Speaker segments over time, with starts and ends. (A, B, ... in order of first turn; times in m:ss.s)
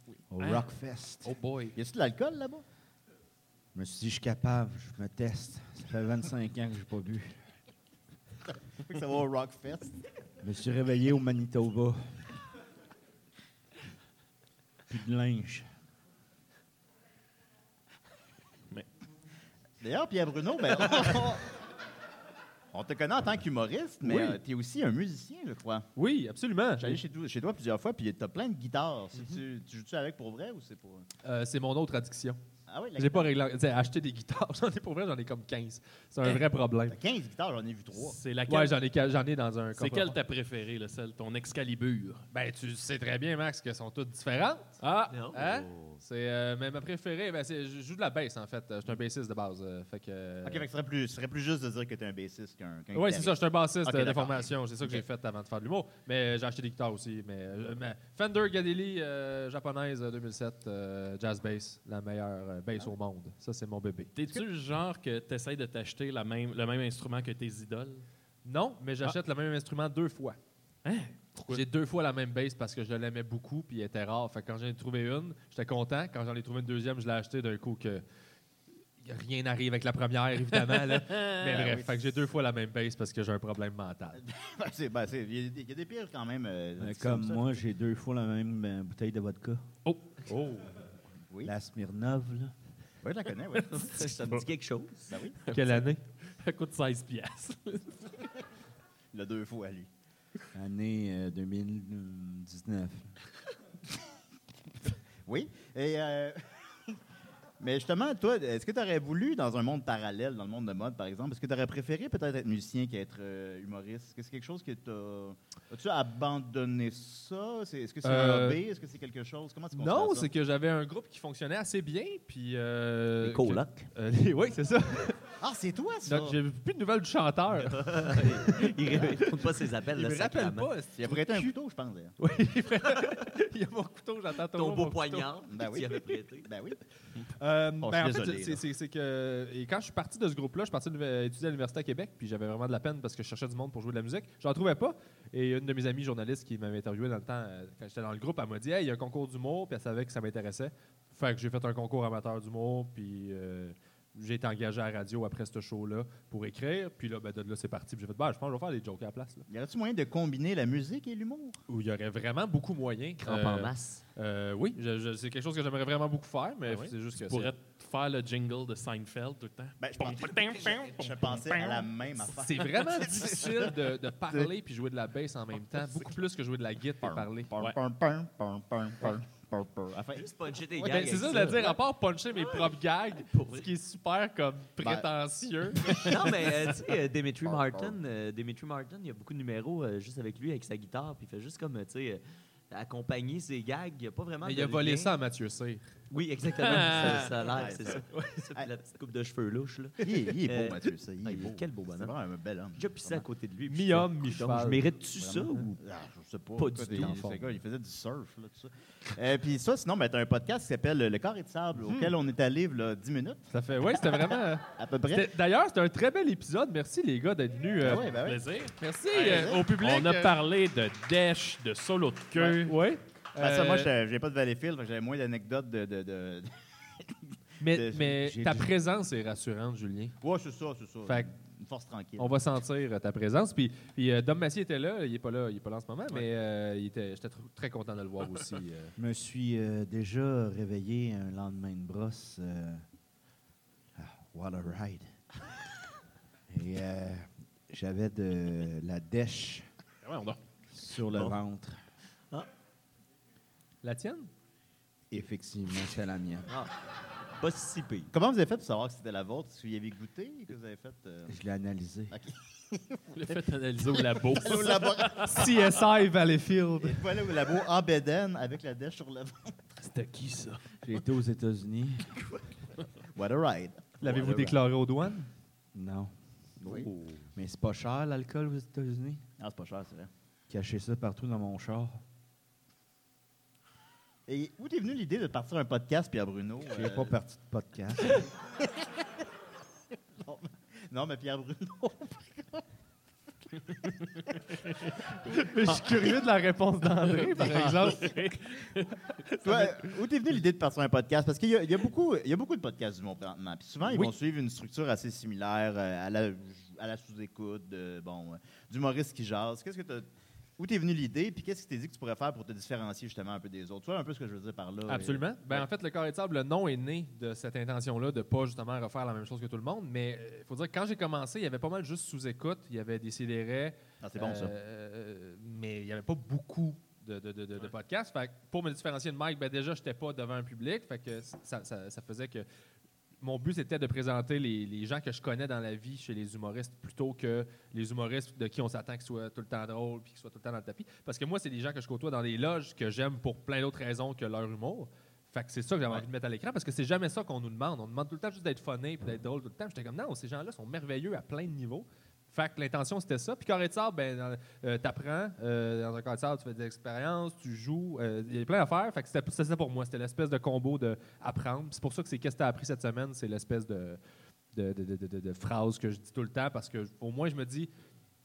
0:00.3-0:01.4 A
0:00.4-0:00.7 B
0:01.2-0:01.8 B
0:01.8-0:02.6 C
0:03.7-0:07.4 A
0:08.8-0:10.0 C
0:10.4-0:12.2 A
0:14.9-0:15.7 A
0:19.8-0:21.4 C
0:22.7-0:25.9 C
0:24.0-0:24.4 D
0:26.0-0:27.0 D
0:26.8-0:31.1 C
0:31.2-0:32.4 D
0:32.7-0:33.3 C
0:33.0-0:37.0 D
0:36.2-0:38.2 C
0:37.9-0:38.8 B
0:38.5-0:40.2 D
0:39.8-0:42.2 B
0:42.3-0:44.8 D
0:44.8-0:45.2 B
0:45.1-0:46.0 E
0:45.3-0:50.7 D
0:50.4-0:55.0 C
0:52.9-1:04.1 D
1:04.2-1:08.0 B
1:08.4-1:10.4 D
1:10.8-1:11.6 B
1:11.5-1:18.0 D
1:19.0-1:24.2 D
1:20.7-1:21.3 B
1:21.4-1:22.0 C
1:24.2-1:27.5 C
1:26.8-1:29.6 A
1:29.9-1:30.3 B
1:30.2-1:30.7 D
1:31.4-1:32.5 A
1:33.0-1:34.1 C
1:33.7-1:35.1 E
1:35.1-1:35.4 C
1:35.4-1:35.8 B
1:35.5-1:36.0 D
1:36.4-1:38.3 B
1:39.1-1:39.9 C
1:40.5-1:43.1 A
1:45.3-1:46.4 C
1:47.6-2:00.3 C
1:58.0-1:58.6 D
1:59.7-2:05.2 D
2:03.2-2:03.9 E
2:05.4-2:06.4 C
2:06.1-2:09.3 D
2:07.6-2:10.7 E
2:09.9-2:11.5 D
2:10.9-2:12.1 C
2:12.2-2:15.3 D
2:14.5-2:16.5 E
2:15.5-2:16.8 C
2:17.4-2:39.5 D
2:17.8-2:18.6 C
2:39.5-2:41.6 C
2:41.7-2:47.5 D
2:43.2-2:44.0 E
2:46.6-2:51.9 B
2:49.8-2:54.5 C
2:50.6-2:50.9 E
2:52.3-2:57.5 D
2:57.0-3:00.3 C
3:00.1-3:01.8 E
3:00.8-3:06.3 D
3:02.3-3:03.7 E
3:05.8-3:06.9 C
3:06.0-3:15.2 E
3:07.4-3:08.0 C
3:14.4-3:15.8 D
3:16.1-3:22.1 E
3:16.6-3:17.3 B
3:17.1-3:18.7 C
3:20.0-3:23.2 C
3:22.8-3:25.8 E
3:23.7-3:24.9 D
3:25.2-3:33.5 C
3:26.6-3:27.2 E
3:26.9-3:27.4 D
3:33.5-3:38.2 D
3:34.8-3:35.3 C
3:37.8-3:38.4 C
3:38.2-3:42.7 B
3:38.8-3:40.3 D
3:39.1-3:39.6 C
3:42.5-3:43.9 D
3:43.4-3:48.1 C
3:47.6-3:50.2 D
3:48.1-3:48.7 A
3:50.2-3:52.4 C
3:52.2-3:58.9 D
3:59.0-4:02.8 A
4:04.0-4:05.1 A
4:06.5-4:09.7 A
4:10.0-4:10.4 B
4:10.7-4:11.8 A
4:13.8-4:14.3 D
4:15.1-4:16.5 A
4:17.4-4:18.1 E
4:18.1-4:21.4 C
4:21.3-4:22.1 A
4:22.1-4:25.6 C
4:23.1-4:25.7 B
4:25.3-4:27.0 D
4:26.8-4:29.6 C
4:29.8-4:30.6 B
4:30.8-4:32.2 A
4:33.1-4:34.6 C
4:34.0-4:35.3 D
4:35.7-4:36.1 A
4:36.6-4:37.3 E
4:36.6-4:36.9 C
4:37.4-4:39.2 A
4:39.4-4:40.1 C
4:40.5-4:42.0 A
4:44.3-4:47.1 C
4:46.7-4:48.2 A
4:50.2-4:52.6 C
4:55.3-4:58.2 D
4:57.1-4:59.8 B
4:57.4-4:57.8 C
4:59.4-5:10.1 C
5:03.8-5:04.1 D
5:10.6-5:15.7 C
5:14.9-5:32.4 D
5:24.0-5:24.5 C
5:33.2-6:04.0 D
6:04.5-6:07.7 D